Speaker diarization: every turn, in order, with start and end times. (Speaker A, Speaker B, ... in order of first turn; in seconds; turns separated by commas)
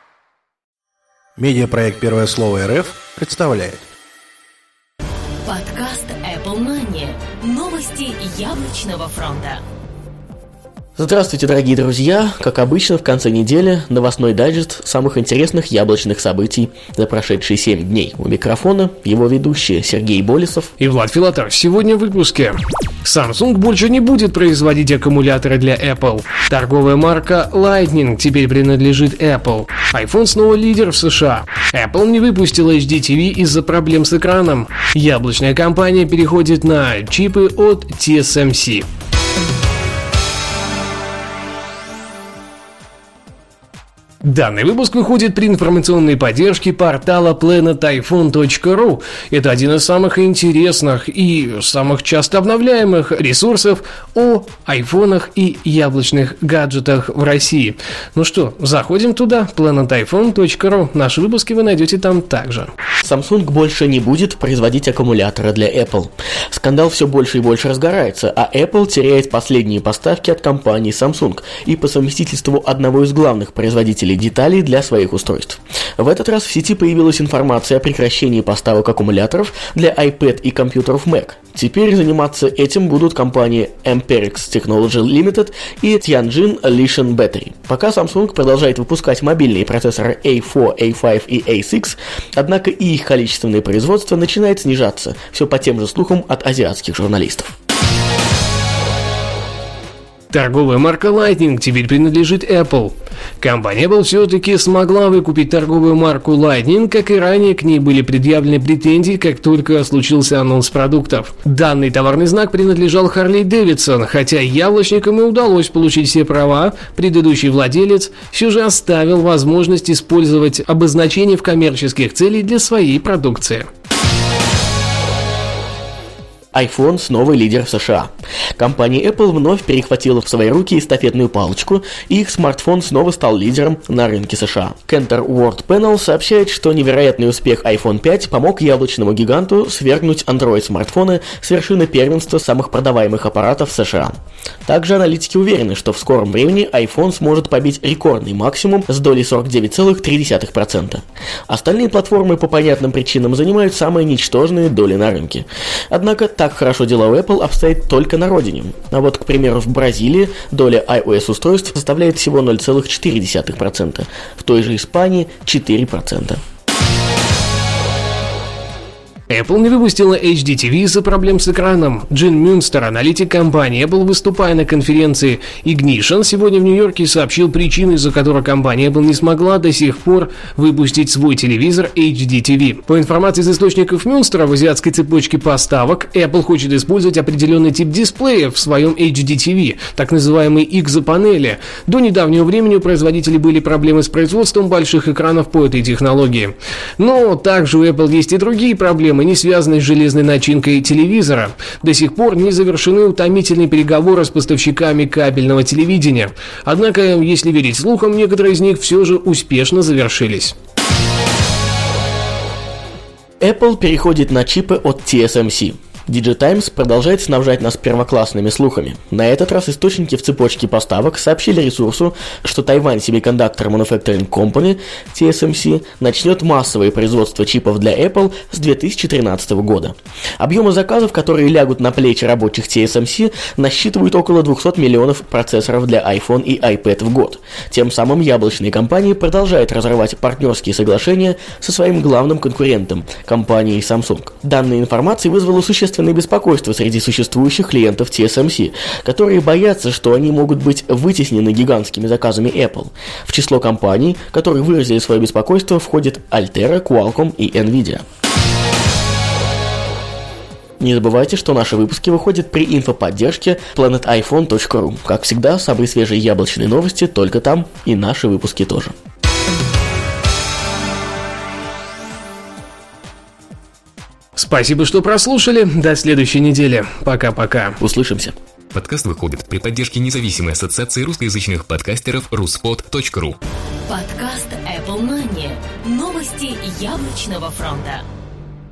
Speaker A: 1.4-3.8, Speaker B: 5.4-9.6, Speaker C: 11.0-20.7, Speaker D: 20.8-38.9, Speaker D: 44.2-62.7, Speaker C: 63.0-97.5, Speaker D: 100.3-123.7, Speaker C: 126.5-166.4, Speaker D: 169.3-210.5, Speaker C: 213.4-258.0, Speaker C: 260.8-268.9, Speaker D: 274.4-277.8, Speaker C: 277.8-278.3, Speaker E: 278.7-283.4, Speaker B: 283.9-288.0